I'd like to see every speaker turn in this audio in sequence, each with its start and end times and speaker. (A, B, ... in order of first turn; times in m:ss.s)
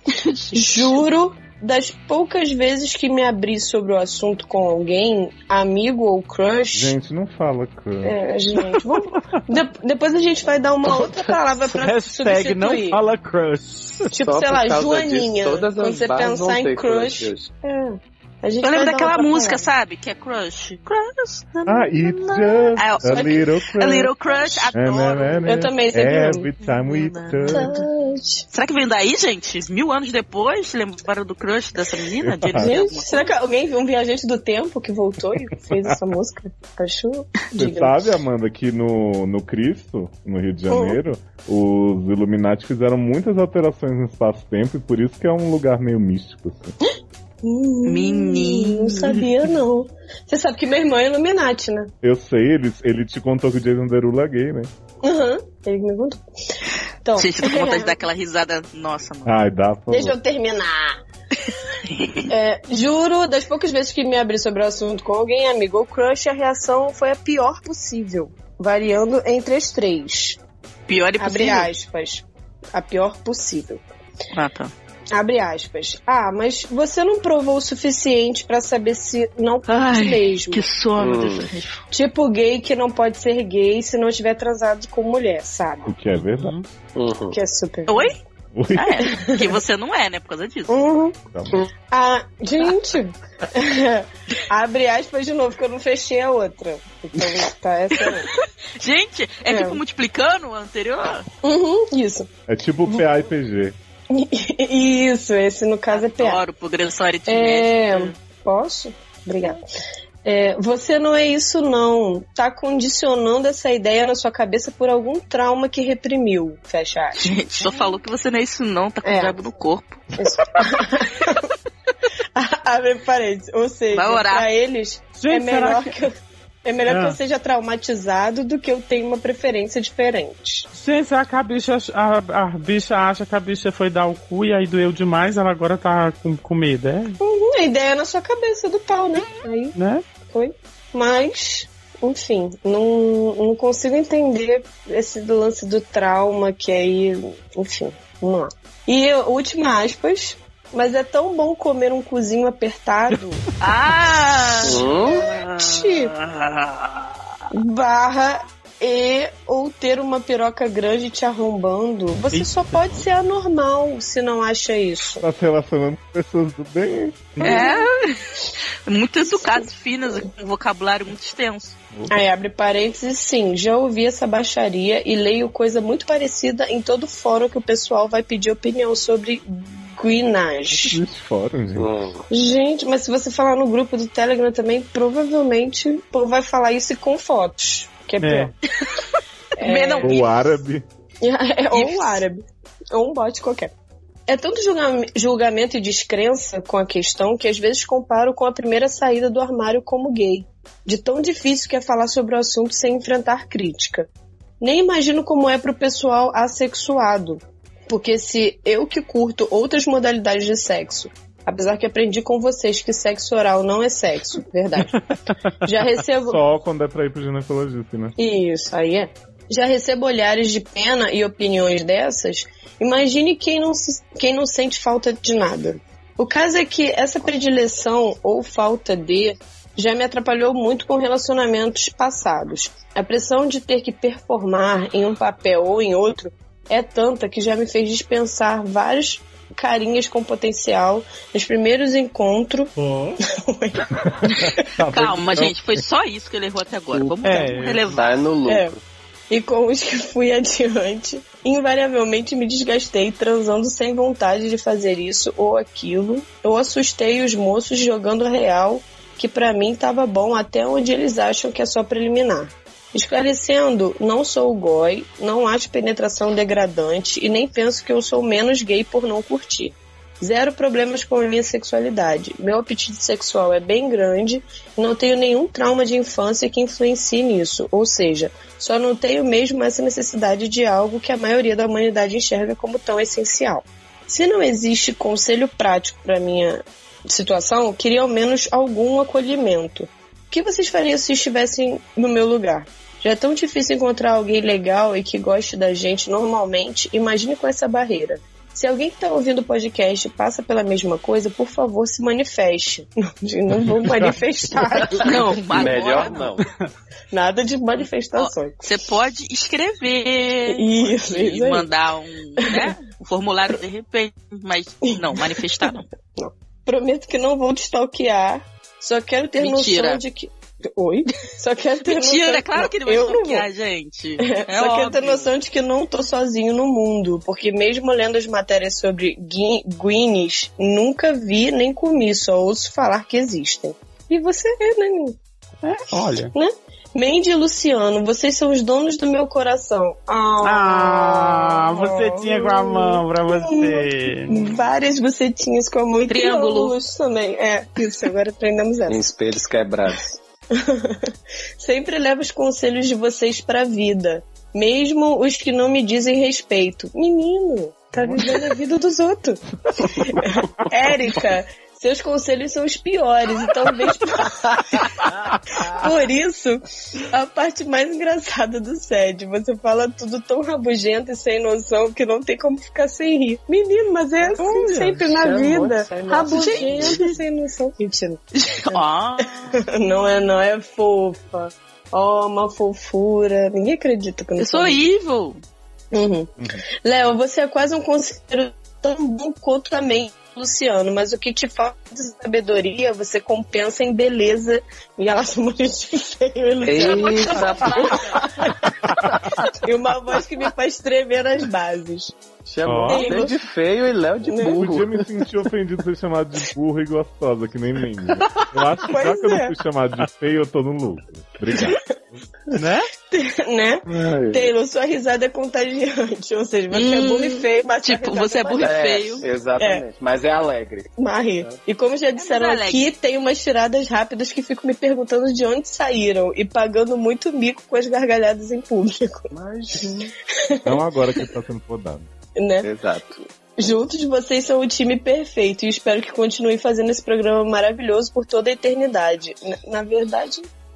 0:00.3-0:01.0 A
0:00.5-0:07.0 B
0:06.7-0:08.2 C
0:08.0-0:13.0 B
0:11.7-0:14.1 D
0:14.1-0:19.7 B
0:14.2-0:17.5 E
0:18.6-0:21.6 A
0:21.6-0:23.4 B
0:21.7-0:24.1 C
0:22.8-0:25.6 A
0:24.2-0:24.7 B
0:24.7-0:27.7 C
0:25.4-0:26.5 B
0:26.6-0:27.9 A
0:27.5-0:28.5 B
0:28.5-0:33.3 A
0:32.2-0:32.8 C
0:32.6-0:38.0 B
0:35.7-0:36.0 C
0:37.6-0:46.8 C
0:40.7-0:41.0 B
0:47.4-0:51.9 B
0:47.8-0:49.3 A
0:52.0-0:54.7 C
0:55.0-0:56.2 B
0:57.0-0:58.0 B
0:57.2-0:59.4 A
0:59.3-1:00.2 C
0:59.9-1:01.0 B
1:01.5-1:02.2 A
1:02.3-1:10.4 B
1:10.9-1:11.7 A
1:11.2-1:13.8 B
1:14.3-1:14.7 A
1:15.1-1:20.6 B
1:19.7-1:21.9 A
1:21.0-1:21.5 E
1:21.9-1:26.0 B
1:25.9-1:26.6 C
1:26.1-1:26.7 D
1:27.0-1:27.4 E
1:27.3-1:28.1 B
1:27.9-1:28.2 A
1:28.6-1:29.2 C
1:28.7-1:30.8 A
1:29.1-1:29.6 B
1:30.7-1:31.2 B
1:31.3-1:31.6 C
1:31.9-1:38.3 B
1:38.0-1:41.3 A
1:39.5-1:39.8 B
1:41.4-1:42.3 B
1:42.5-1:43.8 C
1:44.1-1:46.4 B
1:45.9-1:48.1 A
1:47.3-1:49.6 B
1:50.2-1:57.8 B
1:57.2-2:00.1 A
1:59.0-1:59.4 B
2:00.2-2:01.5 B
2:02.4-2:06.1 B
2:03.9-2:04.5 A
2:05.2-2:06.0 D
2:06.6-2:10.7 B
2:06.9-2:07.2 D
2:10.7-2:17.2 D
2:17.2-2:19.7 B
2:19.8-2:20.0 D
2:20.3-2:33.4 B
2:33.6-2:37.2 A
2:34.6-2:35.3 E
2:34.7-2:36.1 B
2:37.5-2:45.2 B
2:42.3-2:43.0 D
2:45.2-2:47.7 C
2:47.4-2:47.9 B
2:47.4-2:51.8 A
2:49.2-2:49.7 B
2:51.9-2:52.2 C
2:52.1-3:01.0 B
3:00.7-3:02.0 C
3:01.8-3:02.2 E
3:02.3-3:08.5 B
3:08.2-3:08.5 D
3:09.6-3:10.2 B
3:09.6-3:10.3 A
3:10.0-3:10.8 C
3:11.2-3:13.7 B
3:11.7-3:12.2 A
3:14.3-3:24.1 B
3:24.6-3:36.4 B
3:36.2-3:38.2 C
3:38.2-4:02.7 B
4:02.8-4:03.2 C
4:03.3-4:04.6 B
4:04.2-4:05.8 C
4:04.9-4:08.2 A
4:07.2-4:08.0 D
4:07.9-4:08.8 E
4:08.5-4:08.7 B
4:09.3-5:06.2 B
5:03.6-5:05.0 C
5:05.0-5:06.4 E
5:05.0-5:06.3 A
5:06.4-5:06.6 D
5:07.1-5:08.7 B
5:07.8-5:15.9 A
5:10.5-5:11.7 B
5:12.4-5:12.7 B
5:15.0-5:23.4 B
5:19.4-5:20.0 A
5:21.8-5:25.3 A
5:24.2-5:35.2 B
5:35.6-5:36.3 D
5:36.3-5:49.2 B
5:40.4-5:44.5 D
5:46.1-5:46.8 A
5:48.9-5:50.2 E
5:50.5-6:04.9 B
5:58.0-5:58.4 C
5:59.8-6:01.0 C
6:05.5-6:24.8 B
6:14.4-6:17.0 E
6:16.3-6:17.2 A
6:18.4-6:20.1 A
6:24.4-6:25.4 A
6:25.9-6:38.0 B
6:36.6-6:38.5 E
6:36.7-6:38.3 A
6:39.5-6:42.2 B
6:42.4-6:45.1 E
6:42.6-6:43.1 D
6:42.9-6:43.4 B
6:44.3-6:44.8 B
6:44.6-6:51.8 C
6:48.2-6:48.5 E
6:48.8-6:49.5 B
6:52.6-6:52.9 D
6:53.1-6:59.8 B
6:53.9-6:54.5 E
6:56.7-6:59.2 A
6:58.6-7:00.9 E
7:01.0-7:09.3 B
7:02.2-7:02.9 A
7:09.3-7:10.1 E
7:10.4-7:10.8 B
7:10.6-7:12.1 C
7:12.4-7:12.7 B
7:12.6-7:13.1 E
7:13.6-7:20.5 B